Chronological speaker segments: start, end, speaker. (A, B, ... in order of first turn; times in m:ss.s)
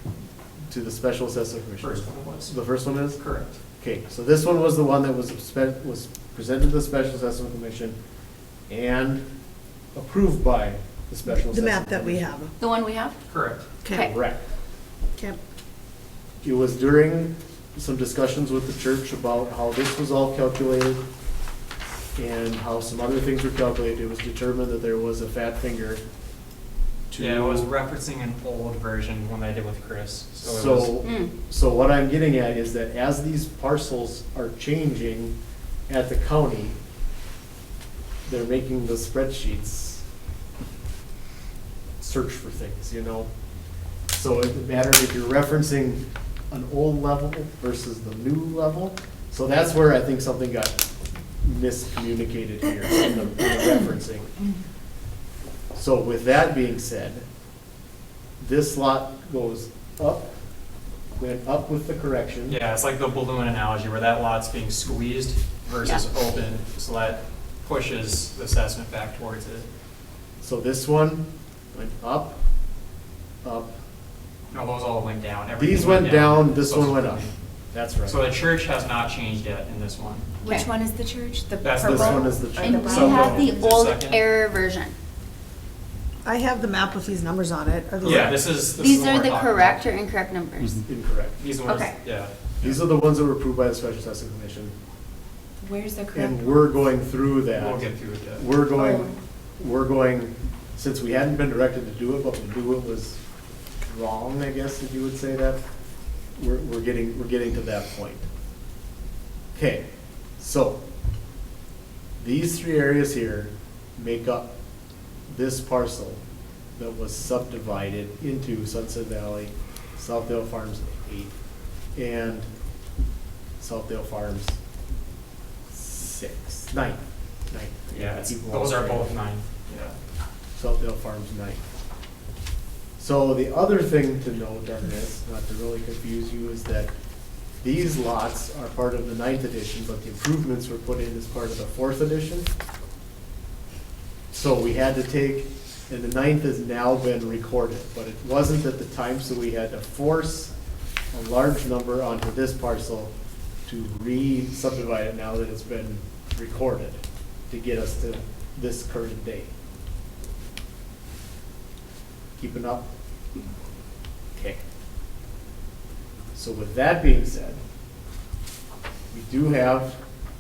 0:00.7-0:03.2 A
0:01.8-0:03.6 B
0:03.8-0:08.0 A
0:08.7-0:09.2 A
0:09.9-0:12.4 A
0:11.3-0:12.5 C
0:12.6-0:13.2 D
0:13.3-0:13.7 B
0:13.8-0:14.1 C
0:13.9-0:14.4 A
0:16.4-0:21.0 A
0:22.2-0:26.0 A
0:27.1-0:27.7 A
0:27.2-0:31.0 B
0:30.4-0:35.4 A
0:31.0-0:31.3 D
0:35.9-0:36.8 A
0:38.3-0:40.0 A
0:42.0-0:43.3 A
0:44.1-0:50.8 A
0:51.4-0:54.3 A
0:55.7-0:57.3 A
0:58.4-1:00.3 A
1:01.2-1:02.6 A
1:02.5-1:09.7 B
1:10.4-1:12.4 A
1:13.4-1:13.7 A
1:14.5-1:17.4 B
1:15.6-1:18.2 A
1:18.0-1:20.4 B
1:20.4-1:20.7 D
1:20.4-1:23.3 E
1:21.6-1:24.2 B
1:21.8-1:23.5 A
1:22.6-1:24.9 D
1:26.2-1:28.5 C
1:28.0-1:30.0 B
1:28.8-1:30.8 D
1:30.8-1:31.4 A
1:31.4-1:32.3 B
1:31.6-1:32.0 D
1:32.6-1:34.7 A
1:35.6-1:36.7 E
1:36.1-1:43.2 A
1:37.6-1:38.5 B
1:38.8-1:39.1 D
1:43.9-1:45.6 A
1:46.4-1:48.3 A
1:49.6-1:49.9 A
1:50.4-1:50.8 A
1:52.2-1:54.5 A
1:55.3-1:56.2 A
1:56.8-2:01.4 A
2:02.0-2:02.5 A
2:03.6-2:04.6 A
2:05.7-2:09.1 A
2:07.9-2:10.0 B
2:10.6-2:11.6 A
2:13.0-2:16.9 A
2:17.6-2:22.5 A
2:24.3-2:30.5 A
2:31.1-2:33.1 A
2:33.7-2:39.5 A
2:42.4-2:42.9 A
2:44.4-2:44.6 A
2:46.4-2:47.6 A
2:49.1-2:50.0 A